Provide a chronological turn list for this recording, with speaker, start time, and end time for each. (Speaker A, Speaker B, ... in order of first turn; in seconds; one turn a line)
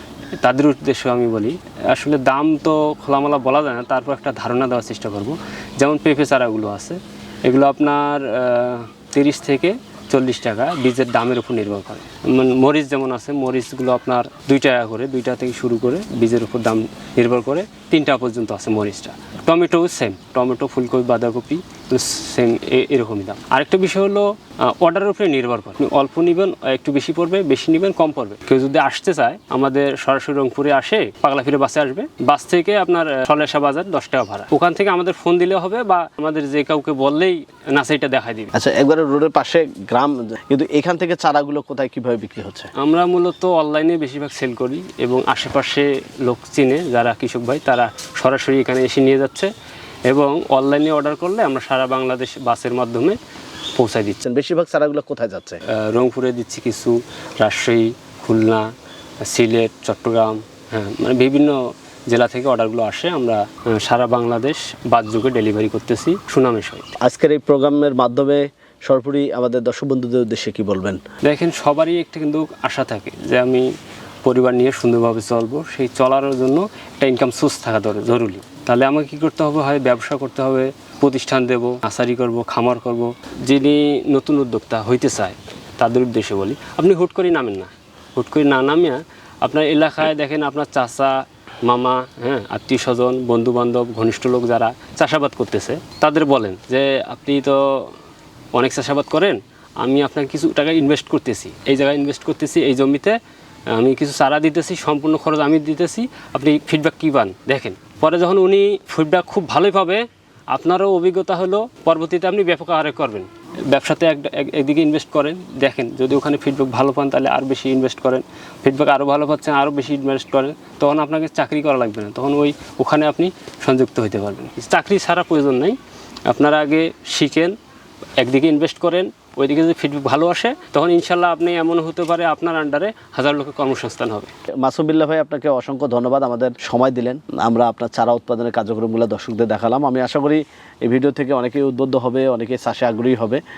Speaker A: 0.4-38.5
Speaker B: 38.5-42.7
Speaker A: 42.8-49.5
Speaker A: 50.1-53.2
Speaker A: 53.8-54.2
Speaker B: 54.2-55.6
Speaker A: 55.7-58.7
Speaker A: 59.3-61.6
Speaker A: 62.1-66.9
Speaker B: 67.0-71.0
Speaker A: 71.2-73.7
Speaker A: 74.2-98.0
Speaker A: 98.5-103.2
Speaker A: 103.7-127.6
Speaker A: 128.2-134.3
Speaker B: 134.6-143.4